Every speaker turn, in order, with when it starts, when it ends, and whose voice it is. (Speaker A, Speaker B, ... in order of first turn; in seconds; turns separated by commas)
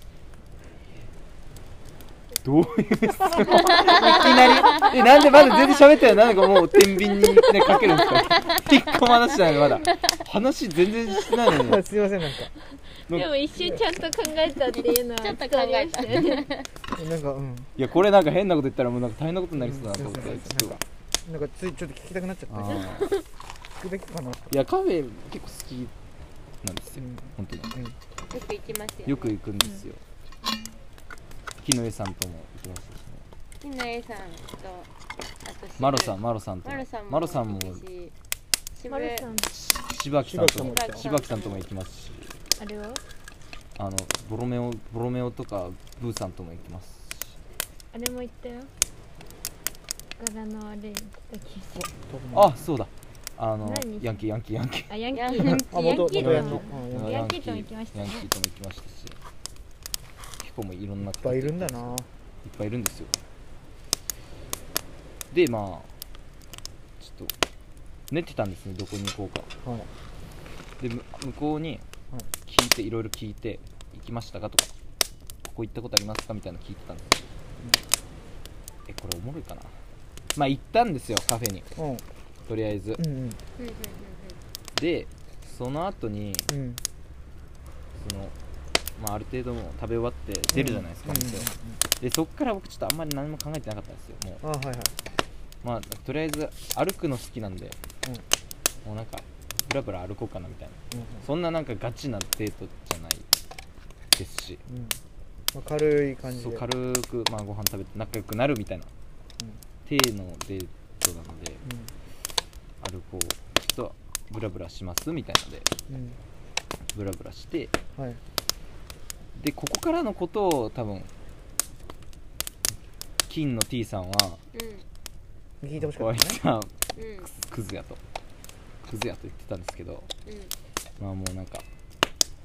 Speaker A: 2.4-11.8, Speaker B: 3.7-5.0, Speaker B: 7.3-10.2, Speaker C: 11.5-12.5, Speaker A: 13.1-13.8, Speaker D: 13.1-16.5, Speaker B: 14.7-16.7, Speaker C: 16.9-17.7, Speaker A: 17.8-20.8, Speaker C: 19.6-22.9, Speaker A: 22.5-23.2, Speaker C: 23.8-24.6, Speaker A: 24.5-25.9, Speaker A: 26.6-27.8, Speaker C: 27.0-27.9, Speaker B: 28.3-29.4, Speaker A: 29.1-30.0, Speaker A: 31.6-33.2, Speaker B: 33.6-34.9, Speaker B: 35.4-38.1, Speaker A: 35.8-37.8, Speaker B: 38.7-39.3, Speaker D: 38.9-39.5, Speaker A: 39.5-42.4, Speaker C: 40.2-41.1, Speaker B: 40.5-41.7, Speaker D: 42.6-43.0, Speaker A: 43.8-47.4, Speaker D: 47.9-48.7, Speaker D: 50.2-51.9, Speaker C: 51.8-52.5, Speaker A: 52.3-55.6, Speaker D: 53.6-54.3, Speaker D: 54.9-58.3, Speaker B: 55.1-56.2, Speaker C: 55.7-57.3, Speaker A: 56.2-59.2, Speaker A: 60.4-61.9, Speaker C: 61.0-62.1, Speaker A: 62.4-63.2, Speaker A: 65.3-65.9, Speaker A: 67.0-67.3, Speaker A: 68.1-69.5, Speaker C: 69.6-69.9, Speaker A: 70.8-71.8, Speaker A: 72.5-74.7, Speaker A: 75.4-77.3, Speaker A: 78.9-79.7, Speaker A: 80.3-81.7, Speaker C: 81.8-82.0, Speaker A: 82.5-83.0, Speaker C: 83.0-83.4, Speaker B: 83.6-84.4, Speaker A: 84.8-86.5, Speaker C: 86.5-86.8, Speaker A: 88.0-88.3, Speaker A: 89.0-94.4, Speaker C: 90.5-91.8, Speaker C: 94.4-95.0, Speaker A: 95.6-97.8, Speaker A: 98.8-103.3, Speaker C: 100.9-101.3, Speaker A: 104.1-104.6, Speaker C: 104.7-105.0, Speaker C: 105.5-106.7, Speaker A: 106.3-108.9, Speaker A: 109.8-111.6, Speaker C: 111.6-111.9, Speaker A: 112.8-115.7, Speaker C: 115.9-116.2, Speaker A: 116.9-117.7, Speaker C: 118.0-118.2, Speaker A: 119.3-121.1, Speaker A: 123.3-124.4, Speaker B: 124.5-124.9, Speaker C: 125.6-126.4, Speaker A: 125.8-128.0, Speaker B: 127.0-127.3, Speaker A: 128.8-130.1, Speaker B: 130.3-130.5, Speaker A: 131.0-131.7